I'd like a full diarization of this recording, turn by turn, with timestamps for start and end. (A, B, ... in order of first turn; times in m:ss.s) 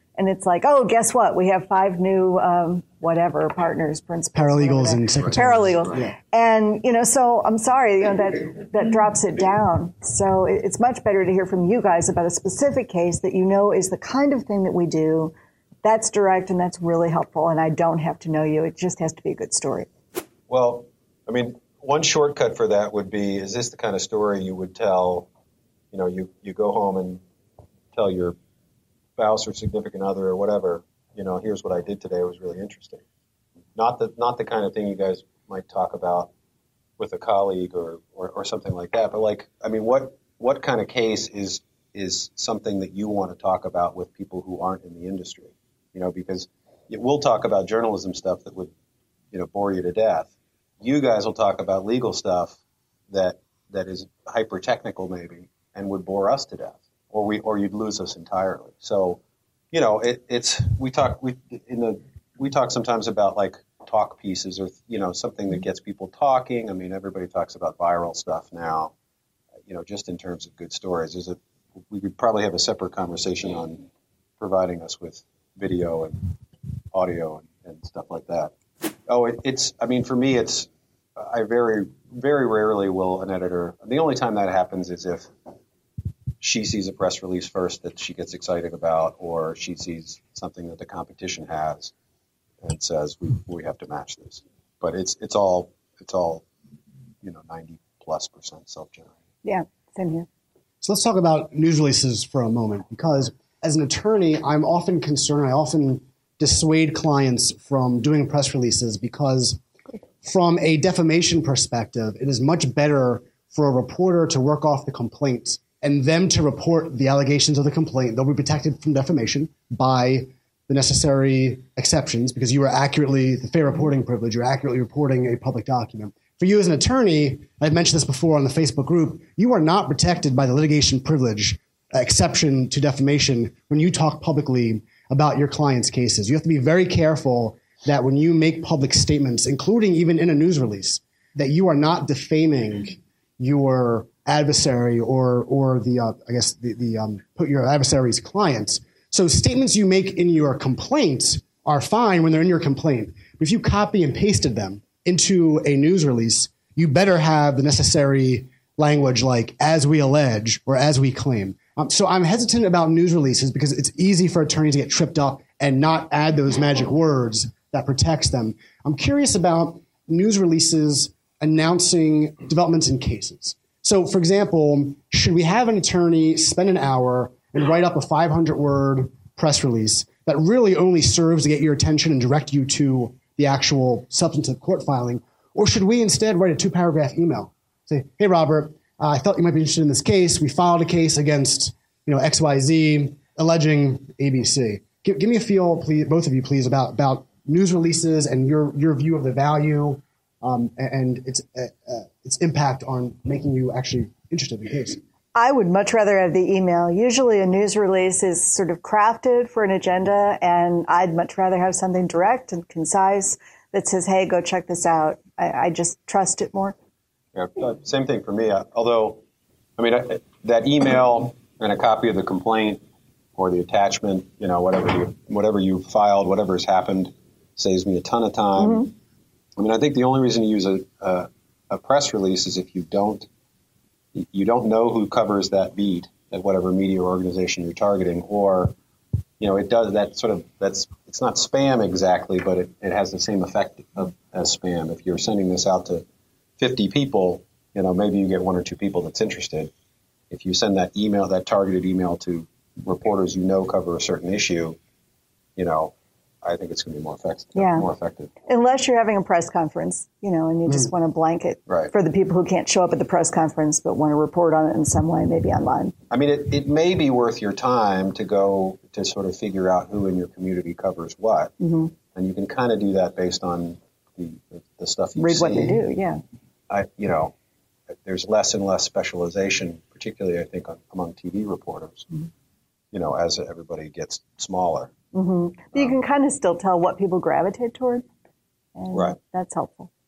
0:00.2-0:15.3 A
0:04.3-0:06.1 B
0:15.8-0:19.9 A
0:20.5-0:25.3 C
0:25.9-0:27.2 C
0:27.9-0:28.3 C
0:29.2-0:33.0 C
0:33.8-0:36.3 C
0:37.0-0:48.7 C
0:49.3-0:52.6 C
0:53.1-0:59.2 C
0:59.7-1:08.9 C
1:09.7-1:11.4 C
1:11.9-1:13.8 C
1:14.4-1:16.3 C
1:16.9-1:18.5 C
1:19.1-1:25.3 C
1:26.4-1:31.9 C
1:32.6-1:36.4 C
1:37.2-1:39.1 C
1:39.4-1:40.3 A
1:40.8-1:49.6 B
1:50.2-3:25.0 B
3:25.3-3:36.7 A
3:37.3-3:39.2 C
3:39.8-3:42.8 C
3:43.4-3:48.9 C
3:49.6-3:53.3 C
3:54.1-3:58.7 C
3:59.4-4:06.0 C
4:06.6-4:09.7 C
4:10.3-4:14.8 C
4:15.6-4:18.3 C
4:17.5-4:17.8 A
4:18.5-4:25.9 A
4:26.1-4:31.5 C
4:31.6-4:31.9 A
4:32.1-4:35.8 C
4:35.2-4:36.2 A
4:36.7-4:37.3 C
4:38.0-4:42.1 C
4:42.9-4:44.9 C
4:45.1-4:48.0 A
4:48.8-4:49.9 A
4:48.9-4:49.2 C